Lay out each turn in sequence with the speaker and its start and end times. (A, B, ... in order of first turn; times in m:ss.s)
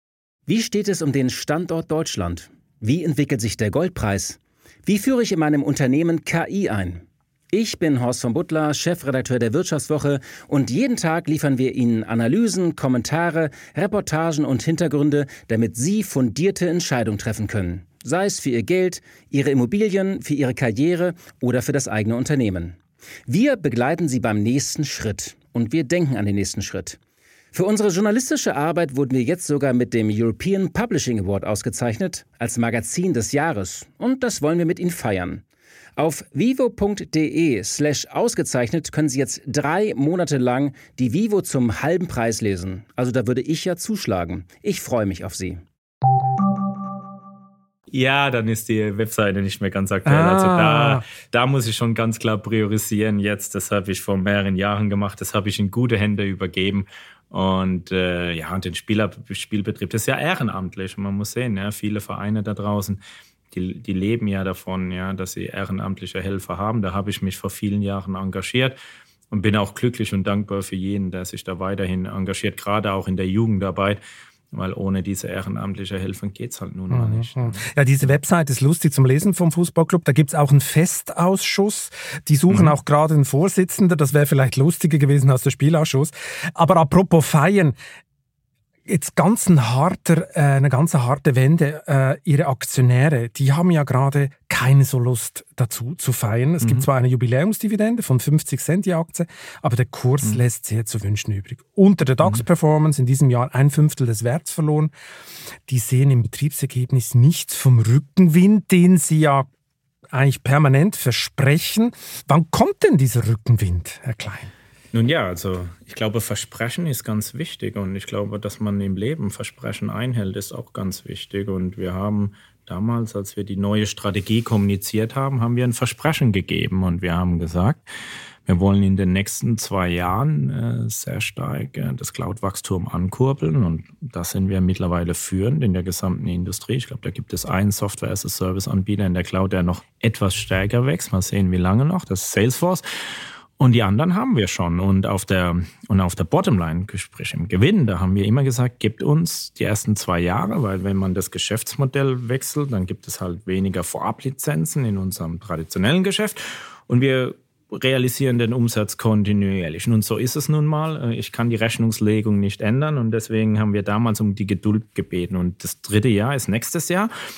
0:00.5-0:27.0 A
0:27.5-0:35.4 A
0:36.0-0:45.6 A
0:47.9-1:03.0 B
0:50.0-0:51.0 C
1:03.5-1:08.8 B
1:09.3-1:14.0 B
1:14.5-1:17.6 B
1:16.9-1:27.8 C
1:22.5-1:22.7 B
1:28.9-1:44.9 C
1:45.7-1:49.5 C
1:50.1-1:54.5 C
1:54.9-2:07.9 B
2:08.4-2:22.8 B
2:23.6-2:47.1 B